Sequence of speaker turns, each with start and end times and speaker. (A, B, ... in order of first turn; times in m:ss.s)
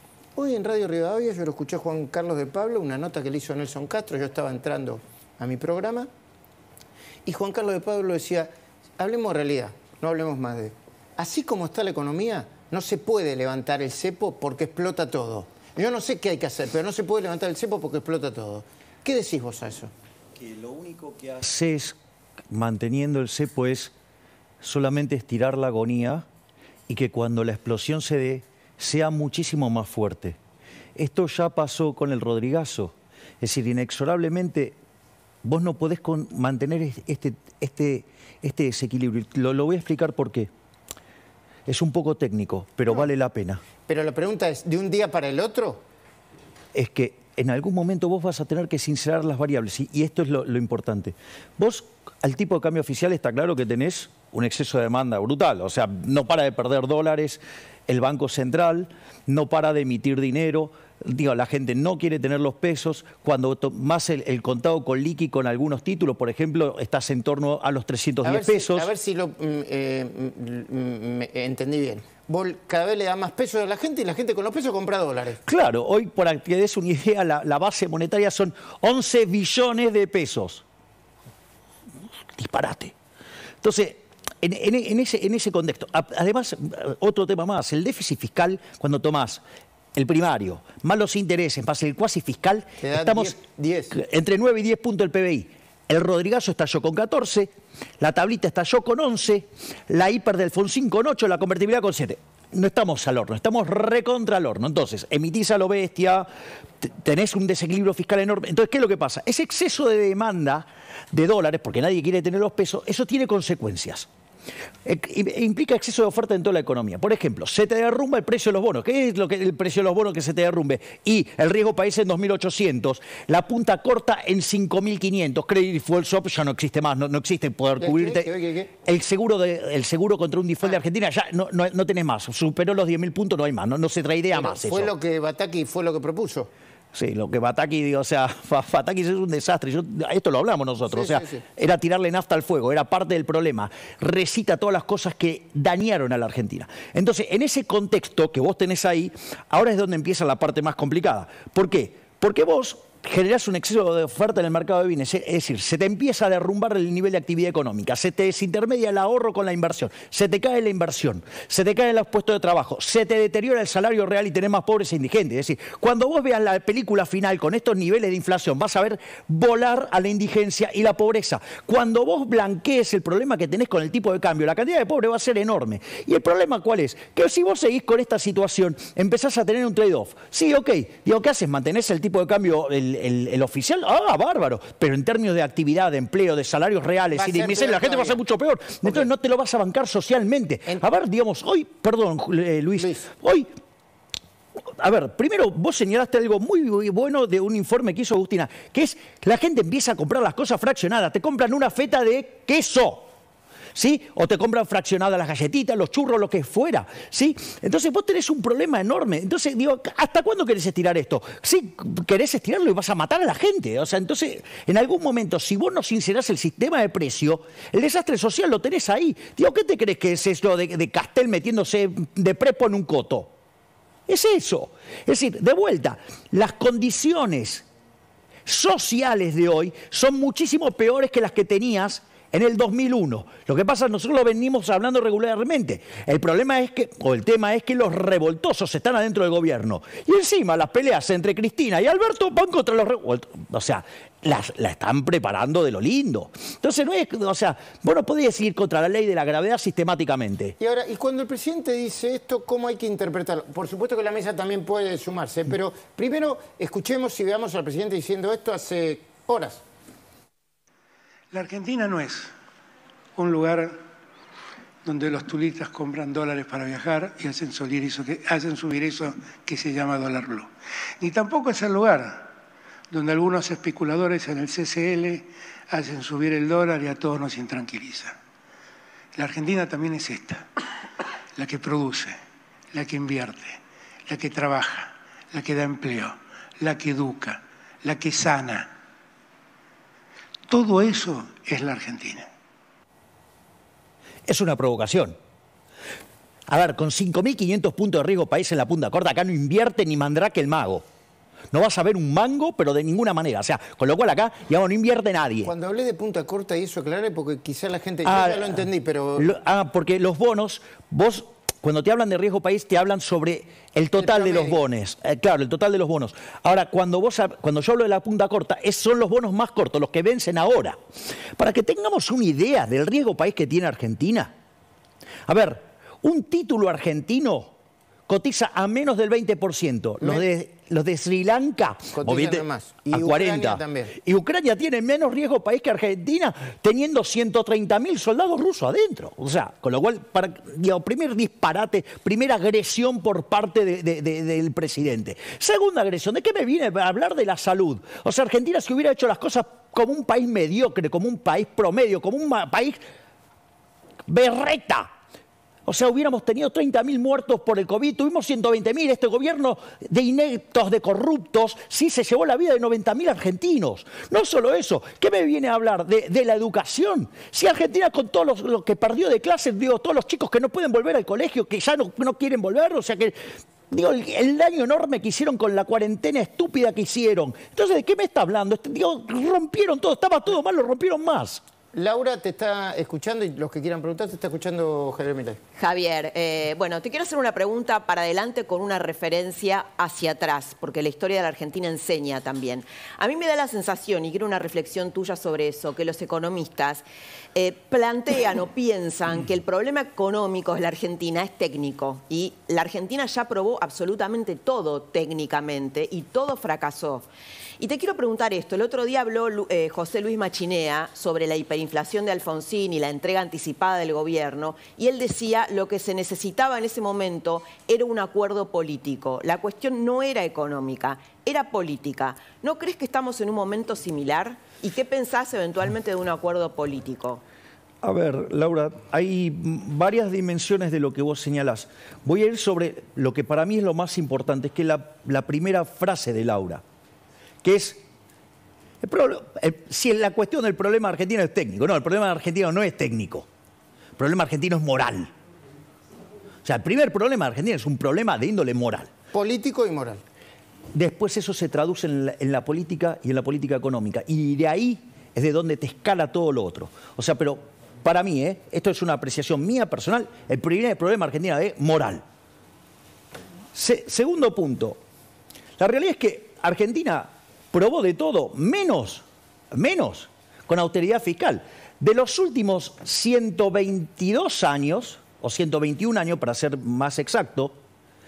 0:00.4-0:06.1 A
0:07.3-0:19.9 A
0:20.4-0:22.0 B
0:22.5-0:23.9 B
0:24.6-0:26.2 B
0:26.9-0:30.4 B
0:31.0-0:34.8 B
0:35.4-0:40.5 B
0:41.7-0:43.6 B
0:43.9-0:45.8 A
0:46.7-1:08.9 B
1:08.2-1:15.4 A
1:15.5-1:20.6 B
1:22.4-1:22.9 B
1:23.6-1:29.4 B
1:30.0-1:33.4 B
1:32.8-1:34.0 A
1:33.9-1:46.3 B
1:46.8-1:54.1 B
1:54.8-2:08.3 B
2:07.8-2:08.7 A
2:08.8-2:14.9 B
2:14.3-2:16.5 A
2:16.9-3:13.5 B
2:20.9-2:21.4 A
3:07.1-3:08.2 A
3:12.8-3:13.1 A
3:14.8-3:23.1 B
3:23.8-3:43.3 B
3:44.1-3:47.7 B
3:48.5-4:10.6 B
4:10.6-4:19.6 A
4:21.3-4:22.3 C
4:23.2-4:23.8 C
4:24.8-4:30.5 C
4:31.0-4:32.3 C
4:32.9-4:38.2 C
4:39.2-4:40.5 C
4:41.4-4:42.2 C
4:42.7-4:48.7 C
4:50.5-4:52.3 C
4:54.3-4:55.2 B
4:56.5-5:00.8 B
5:01.5-5:05.5 B
5:05.4-5:09.3 A
5:08.0-5:08.6 B
5:09.2-5:20.8 B
5:14.0-5:14.6 A
5:21.4-5:24.3 B
5:25.3-5:27.5 B
5:28.1-5:52.8 B
5:31.9-5:34.0 A
5:54.1-5:54.9 B
5:55.7-6:13.2 B
6:13.7-6:21.4 B
6:21.7-6:25.4 A
6:25.6-6:47.1 D
6:47.6-7:07.2 D
7:07.8-7:16.6 B
7:17.4-7:17.8 B
7:18.8-7:23.3 B
7:24.0-7:25.1 B
7:26.4-7:28.9 B
7:29.1-7:30.0 A
7:30.7-7:42.0 B
7:43.5-7:44.8 B
7:45.6-7:57.6 B